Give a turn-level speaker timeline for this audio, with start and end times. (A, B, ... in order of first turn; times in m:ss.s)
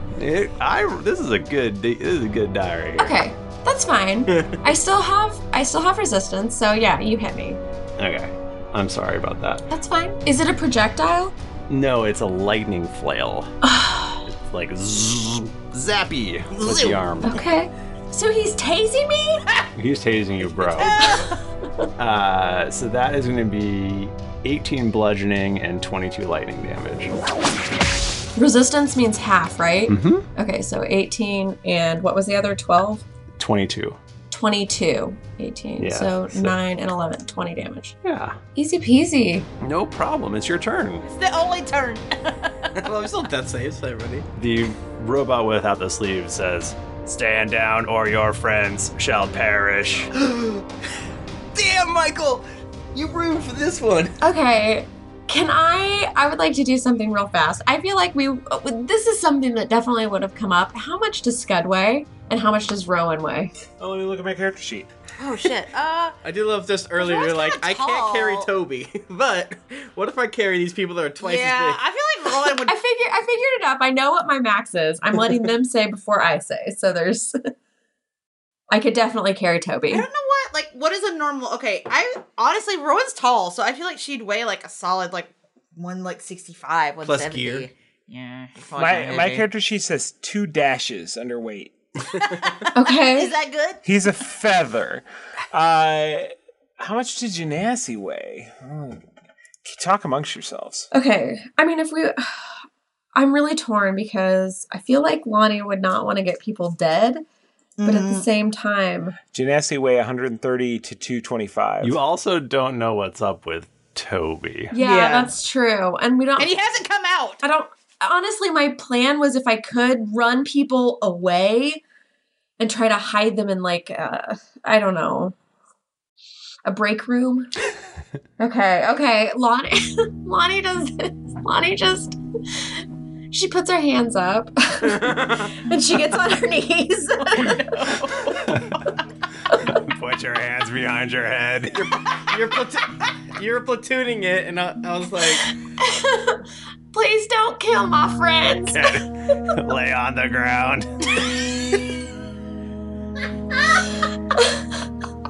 0:00.1-0:03.2 A
0:03.0-0:07.6 B
0:08.0-0:09.6 A
0:09.7-0:11.3 B
0:11.7-0:13.5 A
0:13.6-0:14.2 B
0:14.2-0:17.4 A
0:16.6-0:16.9 C
0:17.2-0:19.4 B
0:19.8-0:21.0 A
0:20.7-0:21.2 C
0:22.0-0:27.1 A
0:28.4-0:33.0 B
0:29.9-0:30.2 A
0:33.4-0:34.0 A
0:34.3-0:38.0 B
0:35.8-0:36.6 A
0:38.0-0:38.4 A
0:38.5-0:39.5 B
0:39.6-0:41.0 A
0:41.0-0:42.5 C
0:42.8-0:44.3 D
0:44.3-0:50.1 A
0:50.1-0:50.6 D
0:51.5-0:54.2 D
0:54.2-1:03.5 B
1:03.8-1:04.9 E
1:05.2-1:06.1 C
1:06.2-1:11.8 D
1:07.0-1:08.5 C
1:11.2-1:12.7 C
1:12.6-1:17.4 B
1:18.7-1:20.0 B
1:19.9-1:29.5 C
1:27.0-1:27.7 D
1:28.8-1:31.7 E
1:32.4-1:33.8 C
1:32.7-1:33.3 B
1:33.8-1:39.0 E
1:39.6-1:40.9 E
1:40.9-1:42.5 B
1:43.1-1:47.2 B
1:47.8-1:49.2 B
1:49.3-1:52.0 E
1:51.8-1:54.7 A
1:54.7-1:56.5 B
1:54.8-1:55.2 C
1:56.4-1:57.4 C
1:57.4-2:01.8 B
2:02.6-2:05.3 B
2:06.6-2:07.5 B
2:08.4-2:12.2 B
2:13.3-2:16.6 B
2:16.3-2:18.6 C
2:19.5-2:22.0 A
2:21.8-2:25.5 D
2:25.8-2:29.0 B
2:28.6-2:31.2 A